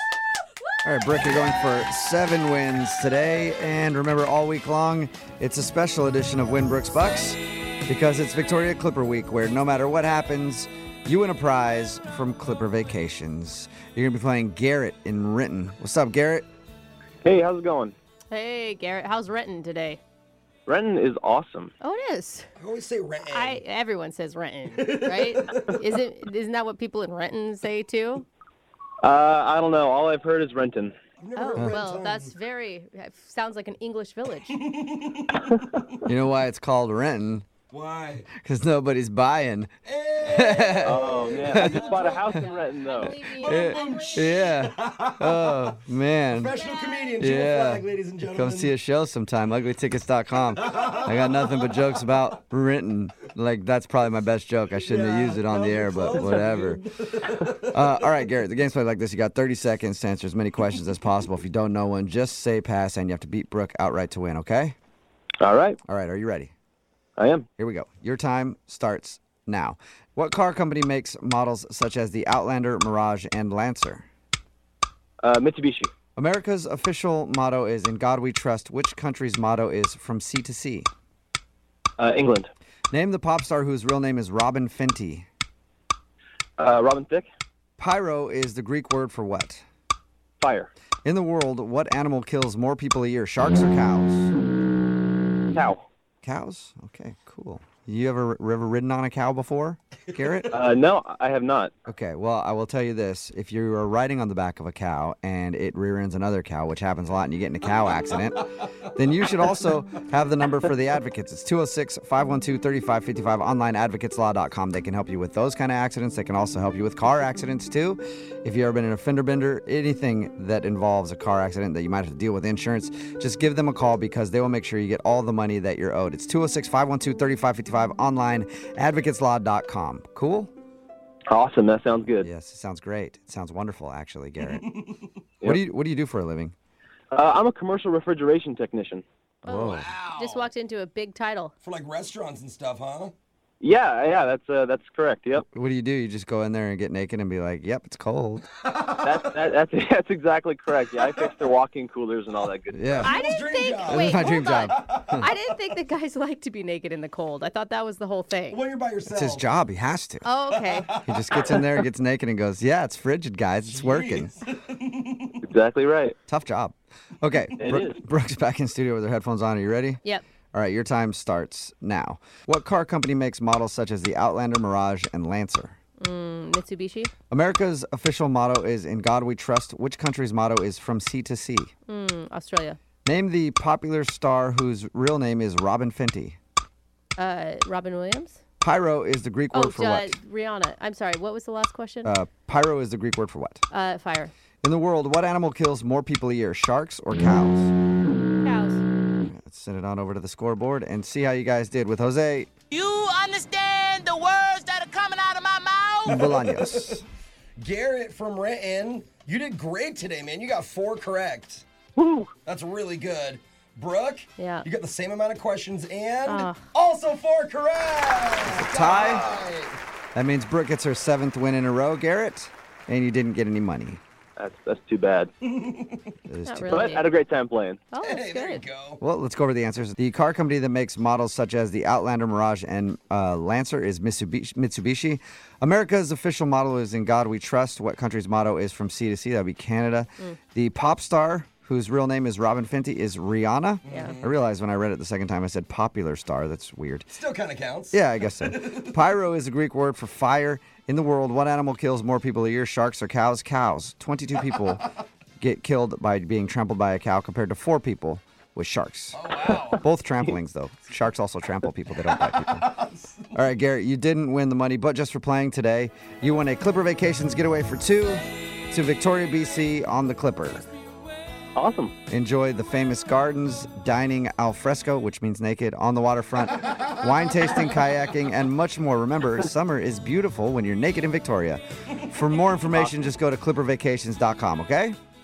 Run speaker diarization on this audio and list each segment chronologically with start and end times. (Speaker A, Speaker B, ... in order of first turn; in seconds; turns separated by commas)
Speaker A: 0.8-16.5, Speaker B: 17.2-17.9, Speaker C: 18.3-20.0, Speaker B: 20.7-21.7, Speaker C: 21.8-22.5, Speaker D: 22.6-23.6, Speaker C: 23.3-28.3, Speaker D: 24.8-25.8, Speaker B: 29.0-30.9, Speaker D: 31.2-32.3, Speaker C: 31.4-34.6, Speaker D: 34.5-35.9, Speaker A: 36.0-37.5, Speaker D: 37.7-38.3, Speaker A: 38.4-39.7, Speaker D: 39.9-42.4, Speaker A: 40.2-41.8, Speaker B: 40.8-43.2, Speaker C: 41.4-44.5, Speaker D: 43.0-45.7, Speaker A: 43.3-46.6, Speaker D: 46.3-48.7, Speaker A: 47.2-56.8, Speaker D: 50.8-51.6, Speaker D: 54.8-57.9, Speaker A: 57.5-64.8, Speaker B: 65.4-65.8, Speaker A: 65.9-66.5, Speaker B: 67.2-67.5, Speaker A: 67.6-74.1, Speaker B: 75.2-75.9, Speaker A: 76.2-80.9, Speaker B: 82.0-82.5, Speaker A: 82.9-85.3, Speaker B: 86.6-87.3, Speaker A: 87.8-89.6, Speaker B: 90.4-90.7, Speaker A: 91.0-94.3, Speaker B: 95.5-95.8, Speaker A: 96.2-100.5, Speaker B: 100.5-101.7, Speaker A: 101.9-130.5, Speaker B: 131.3-132.3, Speaker A: 132.2-134.7, Speaker D: 134.5-135.0, Speaker A: 135.4-136.6, Speaker B: 137.1-139.0, Speaker C: 139.4-141.5, Speaker A: 139.5-139.9, Speaker D: 139.7-140.5, Speaker D: 141.6-143.1, Speaker B: 143.6-145.5, Speaker A: 145.5-148.5, Speaker D: 148.7-149.3, Speaker B: 149.0-152.9, Speaker A: 152.7-153.2, Speaker D: 152.9-155.3, Speaker C: 153.0-158.6, Speaker A: 153.8-155.2, Speaker D: 158.5-159.5, Speaker A: 159.1-160.3, Speaker C: 160.2-161.0, Speaker D: 160.5-161.6, Speaker A: 161.0-164.3, Speaker D: 163.6-165.4, Speaker B: 165.4-166.2, Speaker A: 166.3-170.0, Speaker B: 167.6-168.0, Speaker A: 170.5-175.8, Speaker C: 176.0-177.1, Speaker A: 177.3-181.7, Speaker C: 181.9-182.8, Speaker A: 183.1-186.4, Speaker C: 187.2-188.4, Speaker A: 188.6-190.2, Speaker C: 189.5-192.1, Speaker A: 192.1-193.6, Speaker C: 193.7-194.3, Speaker A: 194.6-197.7, Speaker C: 198.4-198.8, Speaker A: 199.2-202.5, Speaker E: 202.7-206.3, Speaker A: 206.1-207.0, Speaker D: 206.1-207.0, Speaker D: 207.6-211.7, Speaker B: 212.0-212.3, Speaker D: 212.4-219.8, Speaker C: 214.4-214.7, Speaker C: 216.3-216.7, Speaker A: 218.6-219.3, Speaker A: 220.2-224.0, Speaker B: 224.4-225.3, Speaker D: 225.5-226.1, Speaker A: 226.3-227.0, Speaker C: 226.5-227.1, Speaker B: 226.7-227.8, Speaker C: 227.9-228.7, Speaker D: 228.0-229.0, Speaker A: 229.0-247.1, Speaker D: 243.8-244.3, Speaker D: 247.1-248.8, Speaker A: 247.9-254.9, Speaker A: 255.4-262.7, Speaker D: 259.1-259.8, Speaker D: 262.1-263.3, Speaker A: 263.3-270.6, Speaker B: 271.6-271.9, Speaker A: 272.1-285.0